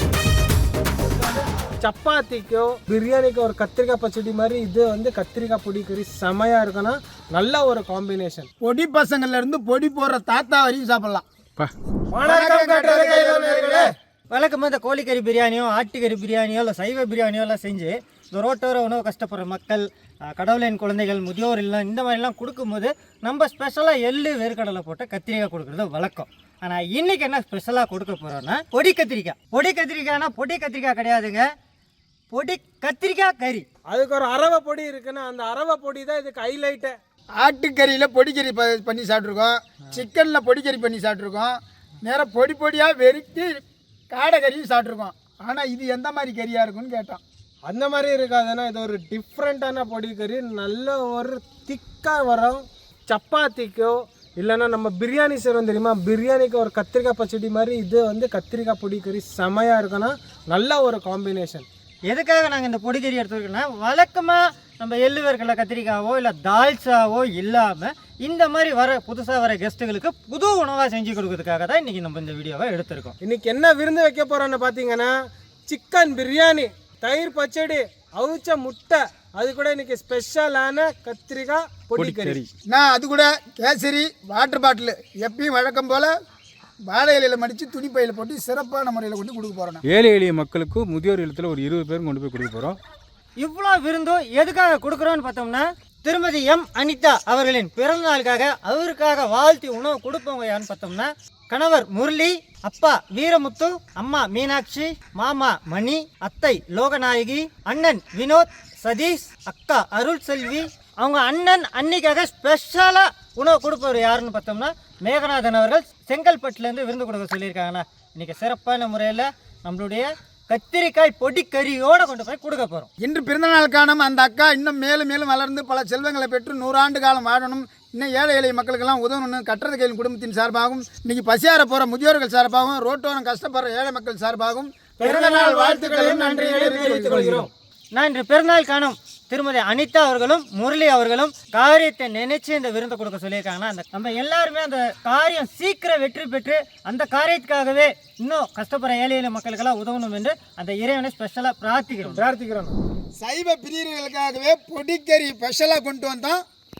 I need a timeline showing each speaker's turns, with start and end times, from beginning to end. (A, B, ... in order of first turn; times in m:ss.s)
0:01.0-0:08.5 A
0:08.6-0:11.2 B
0:12.1-0:13.9 A
0:12.2-0:13.9 B
0:14.3-0:31.5 C
0:32.3-0:33.7 C
0:33.9-0:37.0 A
0:37.4-0:43.6 B
0:44.1-0:47.2 B
0:47.7-1:01.7 A
1:02.1-1:13.1 C
1:13.2-1:15.1 A
1:15.7-1:22.4 A
1:22.0-1:22.5 D
1:22.7-1:26.1 B
1:26.9-1:29.8 B
1:29.9-1:32.8 D
1:33.4-2:02.9 C
2:03.0-2:17.5 B
2:15.0-2:17.5 A
2:15.0-2:17.3 C
2:17.9-2:32.3 C
2:32.0-2:32.8 A
2:33.2-2:36.4 B